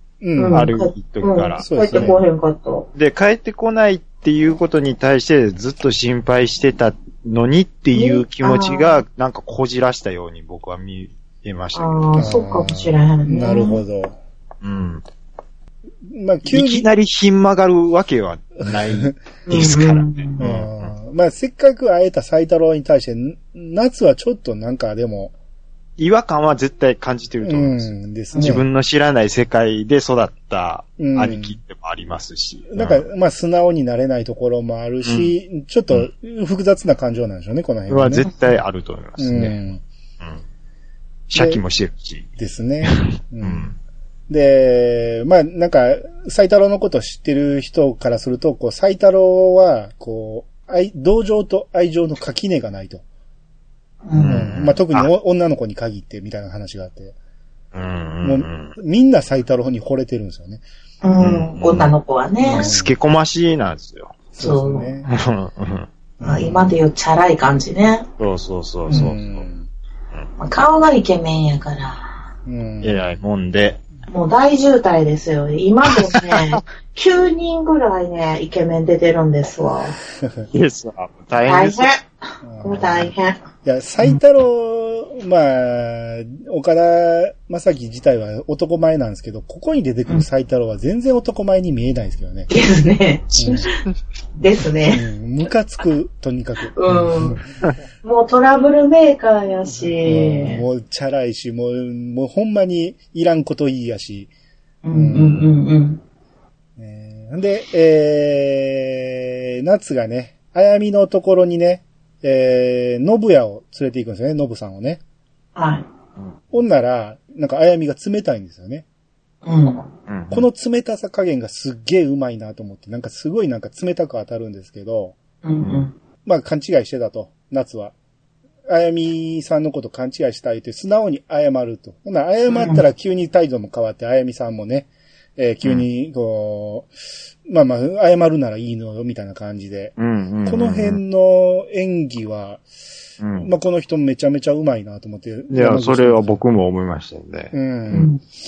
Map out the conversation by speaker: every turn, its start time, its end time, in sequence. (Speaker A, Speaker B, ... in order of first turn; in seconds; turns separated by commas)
Speaker A: 0.2-0.7, Speaker B: 0.4-2.9, Speaker C: 0.5-2.1, Speaker A: 1.6-2.2, Speaker C: 3.0-12.1, Speaker B: 7.9-9.0, Speaker B: 11.7-13.8, Speaker A: 12.1-14.2, Speaker C: 14.6-15.0, Speaker A: 16.1-16.9, Speaker C: 16.5-20.9, Speaker A: 18.6-19.1, Speaker B: 19.5-20.4, Speaker A: 20.4-25.3, Speaker C: 26.0-33.0, Speaker A: 27.4-28.6, Speaker B: 28.3-28.6, Speaker A: 31.0-31.6, Speaker A: 32.7-38.3, Speaker C: 35.0-35.3, Speaker C: 37.9-39.6, Speaker A: 39.2-39.8, Speaker C: 41.3-42.3, Speaker A: 41.3-41.6, Speaker A: 42.4-43.7, Speaker C: 42.9-43.7, Speaker A: 44.3-53.0, Speaker B: 54.0-54.4, Speaker C: 54.2-55.1, Speaker A: 54.3-57.1, Speaker C: 57.7-58.7, Speaker A: 58.2-60.6, Speaker B: 61.0-62.7, Speaker C: 61.2-61.9, Speaker A: 62.4-62.9, Speaker C: 62.5-64.2, Speaker A: 64.3-65.1, Speaker B: 64.4-64.9, Speaker C: 65.1-66.8, Speaker A: 66.2-66.5, Speaker B: 66.2-68.1, Speaker C: 68.2-69.4, Speaker A: 68.9-69.7, Speaker B: 68.9-69.1, Speaker B: 70.4-72.1, Speaker A: 72.5-73.0, Speaker C: 72.8-73.8, Speaker B: 74.1-80.0, Speaker C: 75.8-76.6, Speaker C: 80.5-81.9, Speaker B: 81.5-82.1, Speaker A: 82.4-83.1, Speaker B: 82.6-83.4, Speaker A: 83.6-92.5, Speaker B: 92.5-93.8, Speaker C: 93.4-93.7, Speaker A: 93.4-93.7, Speaker B: 94.4-95.1, Speaker A: 94.9-97.4, Speaker B: 96.7-97.4, Speaker B: 98.0-100.6, Speaker A: 100.0-104.3, Speaker B: 104.8-106.0, Speaker A: 104.9-105.5, Speaker A: 106.8-115.0, Speaker B: 115.5-115.9, Speaker A: 116.5-118.8, Speaker B: 119.5-119.8, Speaker C: 120.1-120.4, Speaker A: 120.3-125.2, Speaker B: 125.4-125.9, Speaker A: 126.2-127.9, Speaker A: 128.7-136.9, Speaker B: 132.5-132.8, Speaker A: 137.5-142.6, Speaker C: 140.0-141.0, Speaker C: 143.2-143.5, Speaker A: 143.4-146.4, Speaker C: 145.5-148.1, Speaker A: 147.5-148.1, Speaker B: 147.9-148.2